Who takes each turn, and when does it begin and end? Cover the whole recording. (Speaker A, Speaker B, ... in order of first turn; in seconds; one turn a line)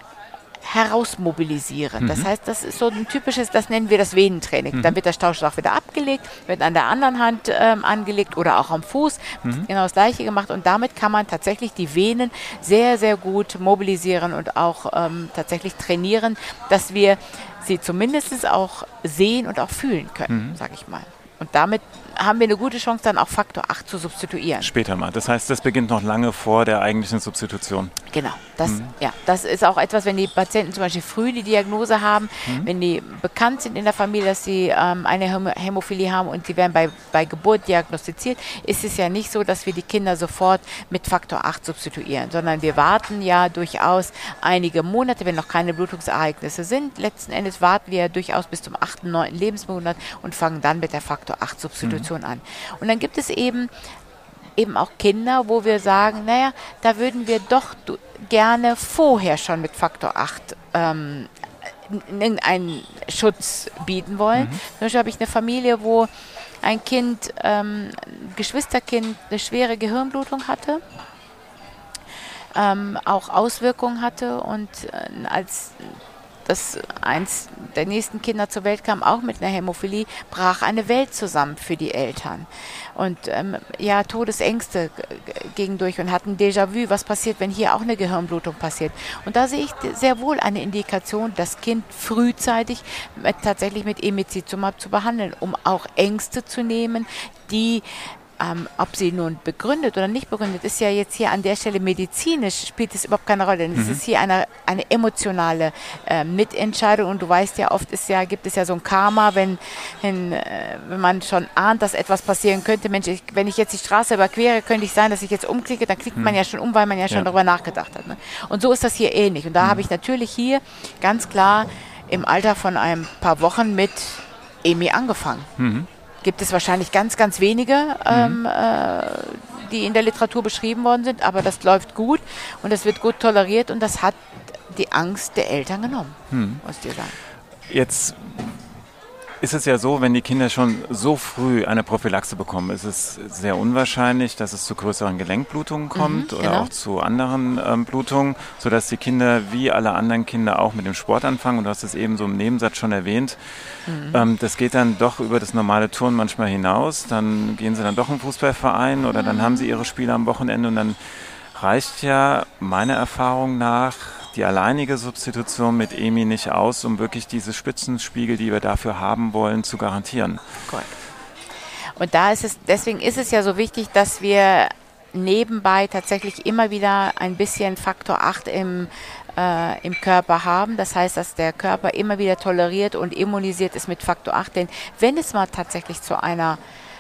Speaker A: 0.6-24.7
Speaker B: 2.0-2.3
Speaker B: 20.3-20.6
Speaker B: 24.6-27.9
Speaker A: 28.1-53.7
Speaker B: 28.6-28.9
Speaker B: 51.8-52.1
Speaker A: 54.6-66.1
Speaker B: 64.4-64.6
Speaker A: 66.6-70.8
Speaker A: 72.5-125.5
Speaker B: 103.8-104.0
Speaker B: 125.6-125.9
Speaker A: 126.2-137.2
Speaker B: 128.1-128.4
Speaker B: 136.3-136.6
Speaker B: 137.7-138.7
Speaker B: 139.4-170.4
Speaker A: 145.9-146.7
Speaker A: 153.9-154.3
Speaker A: 159.2-159.8
Speaker A: 170.7-171.0
Speaker A: 172.0-186.6